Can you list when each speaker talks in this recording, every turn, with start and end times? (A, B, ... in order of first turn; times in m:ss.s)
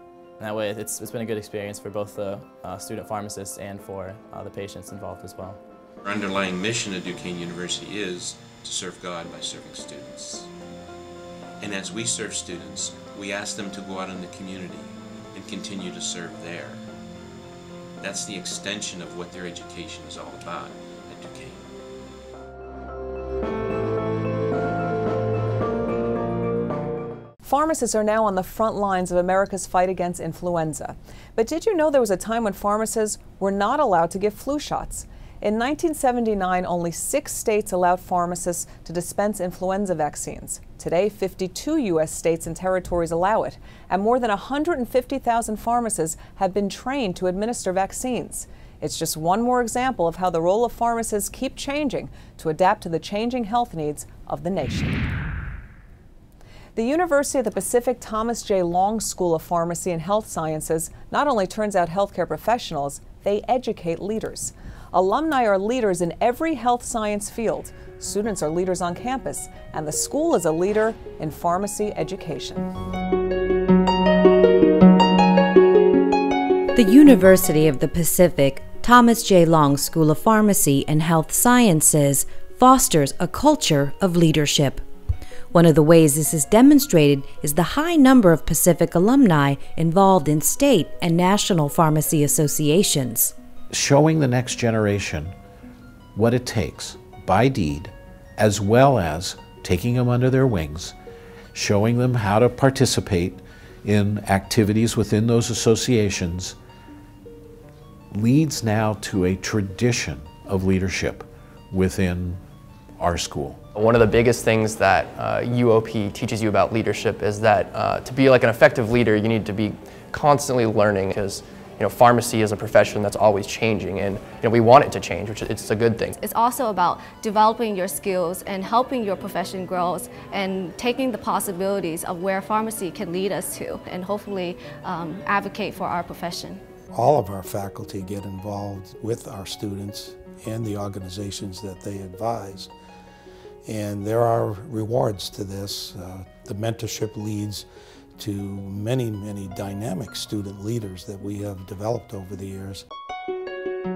0:00.4-0:05.6 A
0:06.0-0:10.5 B
0:11.6-0:16.9 B
0:18.0-0:21.8 B
0:27.4-0:55.0 C
0:56.7-1:12.7 C
1:16.7-1:24.8 D
1:25.5-1:33.3 D
1:33.7-1:35.4 E
1:36.1-1:40.9 E
1:41.5-1:46.6 E
1:48.1-1:52.4 E
1:53.0-1:53.6 E
1:53.7-2:06.2 F
2:06.2-2:14.6 G
2:15.2-2:16.3 G
2:16.9-2:22.7 H
2:23.6-2:27.6 H
2:28.2-2:32.8 H